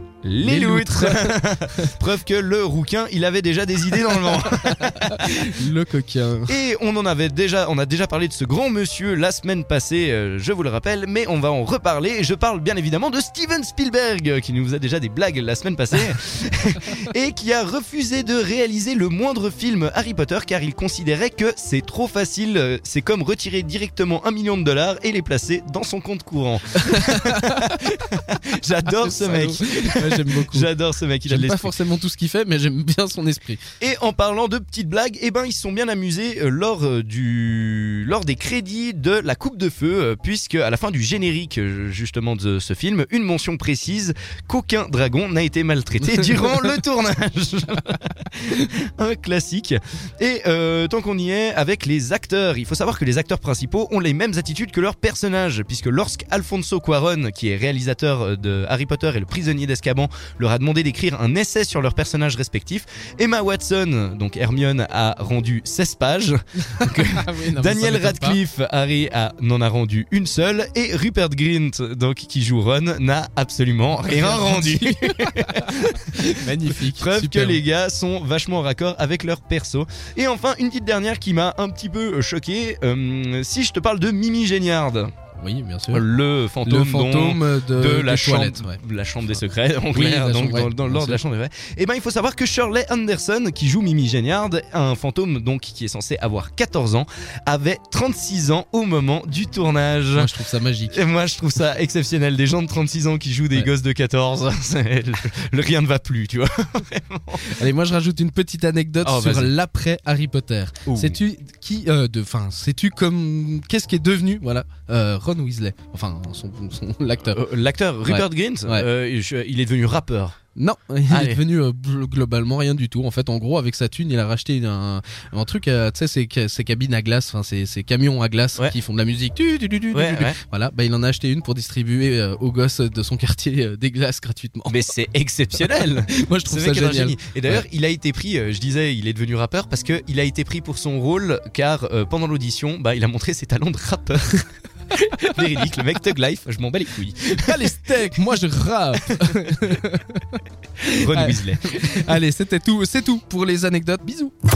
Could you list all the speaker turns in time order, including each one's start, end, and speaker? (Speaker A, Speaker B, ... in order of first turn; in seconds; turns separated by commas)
Speaker A: 0.2-5.4, Speaker B: 0.4-1.9, Speaker B: 4.1-6.6, Speaker A: 6.5-31.8, Speaker B: 26.9-27.8, Speaker B: 28.9-30.7, Speaker B: 31.2-33.6, Speaker A: 33.8-85.1, Speaker B: 66.8-68.4, Speaker B: 74.0-77.6, Speaker B: 85.4-86.0, Speaker A: 85.9-100.3, Speaker B: 86.6-88.8, Speaker B: 89.9-91.2, Speaker B: 100.1-101.0, Speaker A: 100.9-107.4, Speaker B: 107.4-117.4, Speaker A: 109.0-109.5, Speaker A: 110.8-111.2, Speaker A: 117.3-120.3, Speaker B: 118.0-118.9, Speaker B: 120.5-134.8, Speaker A: 121.1-121.4, Speaker A: 129.9-130.4, Speaker A: 134.7-144.4, Speaker B: 135.6-137.6, Speaker A: 145.0-147.9, Speaker B: 147.4-154.3, Speaker A: 151.0-152.1